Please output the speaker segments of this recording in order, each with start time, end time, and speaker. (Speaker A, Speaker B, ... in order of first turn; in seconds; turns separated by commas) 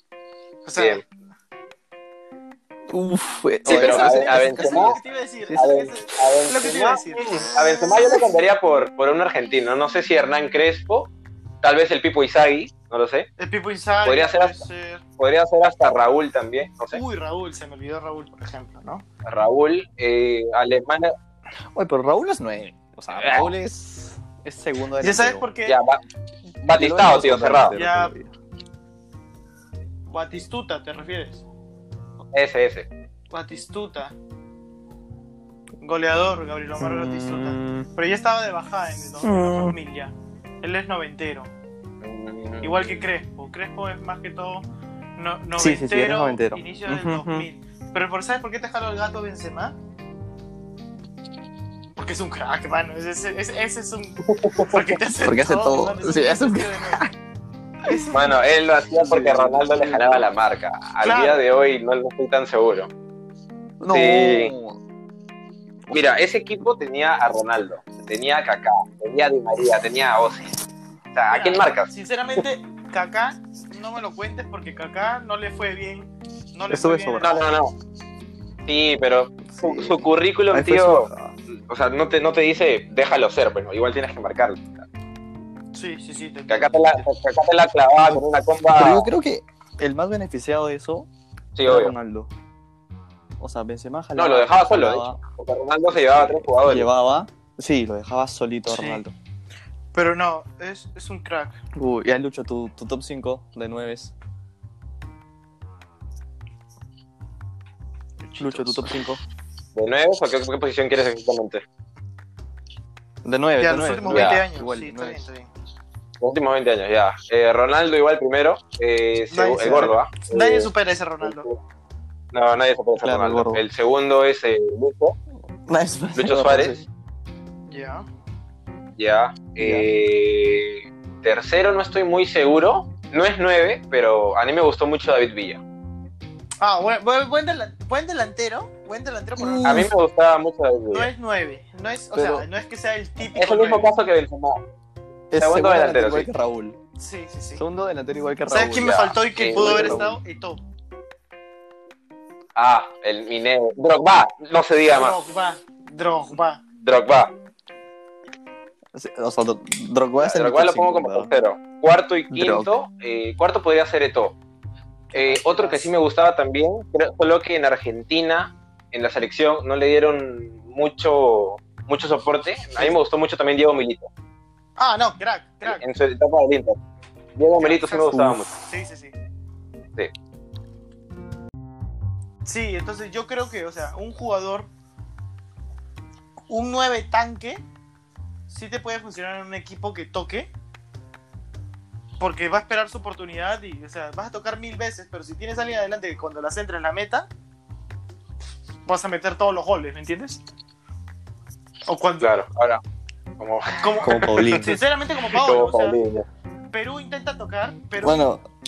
Speaker A: 0.6-1.0, Speaker B: 0.8-1.0, Speaker C: 2.9-5.6, Speaker A: 3.6-7.5, Speaker B: 3.7-5.0, Speaker B: 5.5-11.1, Speaker C: 7.6-8.2, Speaker B: 11.6-13.3, Speaker A: 13.4-15.0, Speaker B: 14.0-14.6, Speaker B: 15.2-17.0, Speaker A: 16.9-19.1, Speaker B: 19.2-21.1, Speaker C: 21.7-25.5, Speaker B: 23.1-23.5, Speaker A: 25.0-25.8, Speaker B: 25.6-26.0, Speaker B: 26.6-27.8, Speaker C: 26.7-28.3, Speaker A: 27.7-28.1, Speaker A: 30.1-31.4, Speaker B: 32.3-32.9, Speaker A: 33.3-34.1, Speaker A: 35.8-41.5, Speaker C: 36.8-37.9, Speaker C: 39.2-39.8, Speaker B: 42.0-42.8, Speaker A: 42.6-44.6, Speaker A: 45.2-49.8, Speaker C: 45.6-47.5, Speaker A: 52.0-57.0, Speaker B: 54.3-54.7, Speaker C: 55.2-57.1, Speaker A: 57.9-58.4, Speaker B: 58.1-62.9, Speaker C: 59.0-60.3, Speaker A: 61.0-61.5, Speaker C: 63.8-64.8, Speaker B: 63.9-64.5, Speaker C: 65.9-66.1, Speaker B: 65.9-70.5, Speaker B: 71.1-71.9, Speaker A: 71.3-77.5, Speaker C: 76.7-77.4, Speaker B: 77.2-77.7, Speaker B: 78.7-81.1, Speaker C: 79.5-81.3, Speaker B: 81.7-84.8, Speaker A: 85.7-87.1, Speaker B: 86.5-89.1, Speaker C: 88.0-91.1, Speaker B: 91.6-91.9, Speaker C: 91.6-92.3, Speaker C: 93.4-95.2, Speaker B: 94.2-96.9, Speaker C: 95.9-99.1, Speaker A: 98.7-99.0, Speaker A: 99.9-101.6, Speaker C: 101.8-104.1, Speaker A: 108.2-108.9, Speaker C: 108.4-109.2, Speaker B: 109.8-111.6, Speaker C: 113.2-115.2, Speaker A: 113.6-115.5, Speaker B: 114.1-114.4, Speaker B: 116.2-120.7, Speaker A: 119.3-121.5, Speaker C: 119.6-119.9, Speaker B: 121.2-121.6, Speaker B: 122.3-125.1, Speaker C: 123.0-123.6, Speaker C: 125.7-126.9, Speaker B: 126.2-126.8, Speaker A: 127.7-128.1, Speaker B: 129.0-135.6, Speaker C: 129.6-129.9, Speaker A: 136.6-139.9, Speaker C: 139.4-139.9, Speaker B: 139.6-141.1, Speaker A: 140.9-143.9, Speaker C: 142.1-142.4, Speaker B: 143.2-144.6, Speaker C: 145.3-146.8, Speaker B: 145.4-146.3, Speaker A: 147.0-147.6, Speaker C: 147.6-150.2, Speaker A: 148.5-150.6, Speaker B: 148.8-150.1, Speaker B: 152.6-155.2, Speaker A: 154.9-156.6, Speaker B: 156.8-157.3, Speaker C: 158.9-161.3, Speaker B: 160.2-164.3, Speaker C: 162.3-162.7, Speaker A: 165.1-165.9, Speaker B: 165.1-174.1, Speaker A: 174.8-175.8, Speaker B: 175.6-176.8, Speaker B: 177.4-178.5, Speaker A: 177.6-179.1, Speaker C: 178.1-178.5, Speaker A: 182.4-184.7, Speaker A: 186.5-187.6, Speaker A: 188.5-190.5, Speaker A: 192.2-197.3, Speaker A: 198.9-200.4, Speaker A: 201.9-202.3, Speaker B: 202.2-202.8, Speaker B: 203.4-204.5, Speaker A: 203.8-206.0, Speaker C: 204.0-204.8, Speaker B: 205.3-206.2, Speaker A: 206.7-208.2, Speaker C: 208.0-208.4